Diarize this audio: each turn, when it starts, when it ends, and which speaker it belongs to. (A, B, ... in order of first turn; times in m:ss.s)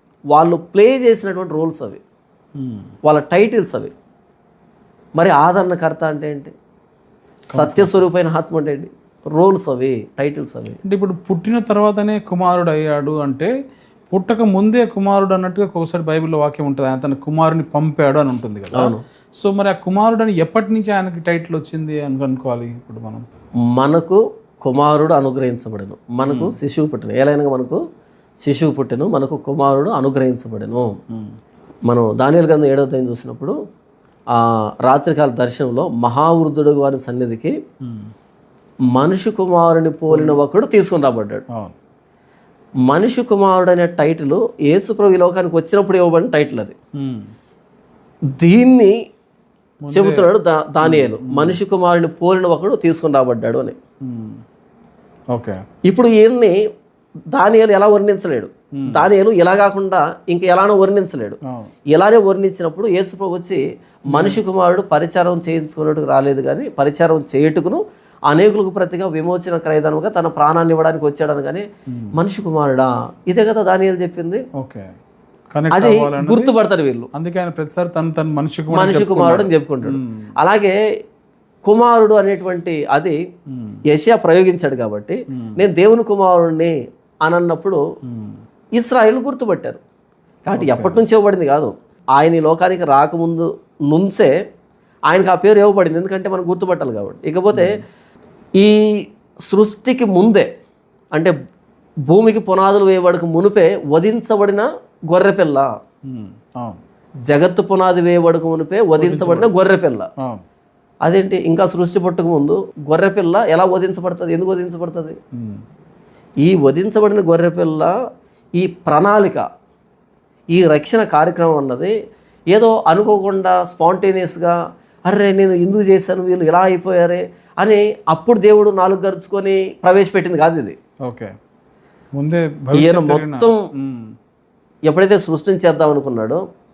0:00.3-0:02.0 A
0:02.6-0:02.9 B
0:03.0-0:03.9 A
0:05.2-0:06.5 A
0:07.5-0:10.8 A
0:07.5-0:08.0 B
0:10.8-0:13.5 B
0:14.1-0:23.2 B
0:18.7-0:19.0 A
0:23.7-0:27.8 A
0:26.2-0:26.5 B
0:28.4-0:30.9 A
0:31.1-0:31.3 B
0:31.9-0:33.5 A
0:34.3-0:37.5 A
0:37.8-0:38.1 B
0:38.9-0:41.4 A
0:40.1-0:40.4 B
0:42.9-0:46.7 A
0:47.0-0:47.3 B
0:48.4-0:48.9 A
0:49.8-0:50.3 B
0:49.9-0:53.7 A
0:50.8-0:51.6 B
0:54.0-0:54.4 B
0:55.3-0:55.6 B
0:55.9-0:56.5 A
0:57.3-1:01.4 A
0:58.7-0:59.1 B
1:01.4-1:01.7 B
1:01.9-1:11.6 A
1:04.1-1:04.4 B
1:12.1-1:14.4 A
1:14.6-1:14.9 B
1:15.5-1:16.5 B
1:15.7-1:17.1 A
1:17.1-1:20.3 B
1:18.7-1:20.8 A
1:21.6-1:23.2 A
1:23.5-1:23.8 B
1:23.9-1:27.8 A
1:25.3-1:25.6 B
1:28.0-1:28.4 B
1:28.8-1:29.8 A
1:30.4-1:34.3 A
1:30.6-1:31.0 B
1:35.1-1:37.8 A
1:37.5-1:37.8 B
1:39.5-1:40.5 A
1:42.1-1:45.7 A
1:46.1-1:46.8 B
1:47.3-1:50.1 A
1:49.0-1:49.5 B
1:51.0-1:55.2 A
1:55.4-1:55.6 B
1:56.4-1:57.9 A
1:58.6-1:59.4 A
2:00.5-2:01.9 A
2:02.5-2:04.5 A
2:05.1-2:10.8 A
2:11.0-2:11.3 B
2:12.2-2:14.1 B
2:12.7-2:13.6 A
2:14.9-2:16.4 A